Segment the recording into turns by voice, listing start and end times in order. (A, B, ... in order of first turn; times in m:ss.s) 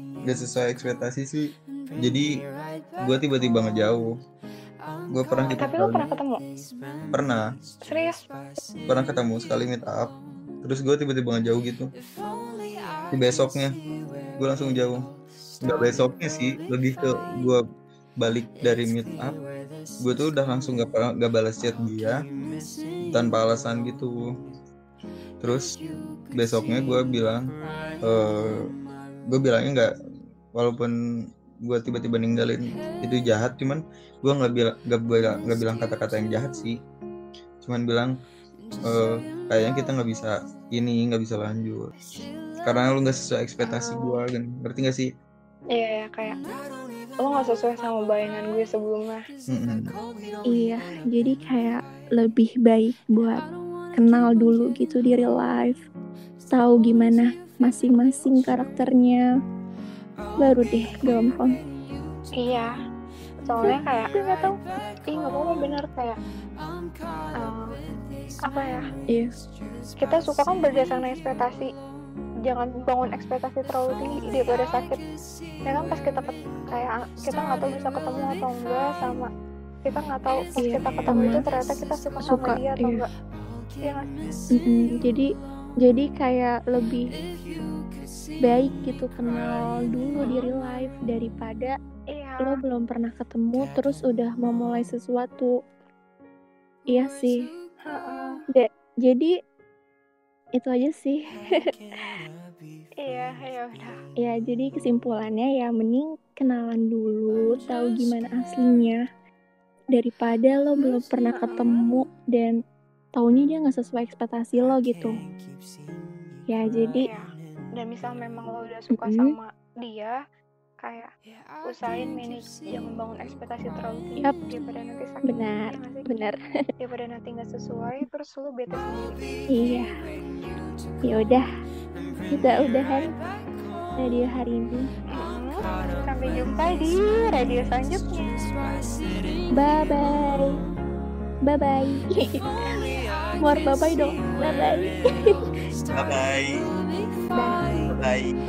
0:00.3-0:01.4 A
0:02.0-0:02.3 A
0:03.0-0:04.1 A
0:05.1-0:06.1 A
0:05.6-0:06.4 B
0:07.1-0:07.4 A
0:07.8-0:08.2 B
0:08.9-0:11.9 A
0:13.1-0:13.8 A
0:14.4-0:15.0 A
0:15.7-0:17.6 A
0:18.2-0:19.4 A
0:20.0-0:22.2 A
0:23.0-0:24.1 A
0:25.4-0:25.7 A
0:26.4-0:27.5 A
0:28.0-0:28.6 A
0:29.3-0:29.9 A
0:30.5-0:30.9 A
0:31.7-0:36.8 A
0:37.6-0:38.1 A
0:38.9-0:41.9 A
0:42.6-0:45.1 A
0:43.6-0:44.2 B
0:45.7-0:46.4 B
0:47.2-0:49.2 B
0:49.5-0:50.0 A
0:50.5-0:53.4 C
0:54.0-0:55.8 C
0:56.5-0:59.2 C
1:00.4-1:01.6 C
1:02.4-1:02.7 B
1:03.4-1:04.1 B
1:03.6-1:04.6 C
1:05.1-1:06.2 B
1:07.4-1:07.7 B
1:08.5-1:08.9 B
1:10.0-1:11.7 B
1:12.5-1:15.0 B
1:15.6-1:19.3 B
1:19.8-1:23.0 B
1:20.6-1:21.5 C
1:22.3-1:23.0 C
1:23.8-1:24.3 B
1:24.5-1:25.3 C
1:25.8-1:27.2 C
1:28.4-1:31.8 C
1:30.2-1:30.5 B
1:32.1-1:32.6 B
1:32.4-1:35.5 C
1:36.9-1:37.5 C
1:37.9-1:38.4 B
1:38.5-1:39.3 C
1:40.6-1:41.2 C
1:43.0-1:44.0 B
1:44.2-1:49.0 C
1:49.9-1:52.6 C
1:51.3-1:51.8 B
1:53.1-1:55.1 C
1:56.5-1:57.1 C
1:57.0-2:00.2 B
1:58.9-1:59.3 C
2:00.8-2:01.1 B
2:01.6-2:06.1 B
2:05.2-2:06.4 C
2:06.8-2:09.2 B
2:09.5-2:09.9 C
2:11.0-2:11.4 C
2:12.3-2:13.1 C
2:14.0-2:14.9 C
2:15.1-2:18.7 B
2:19.6-2:20.6 C
2:21.4-2:22.4 C
2:23.4-2:25.0 C
2:25.9-2:26.7 A
2:27.3-2:27.6 C
2:27.9-2:28.4 A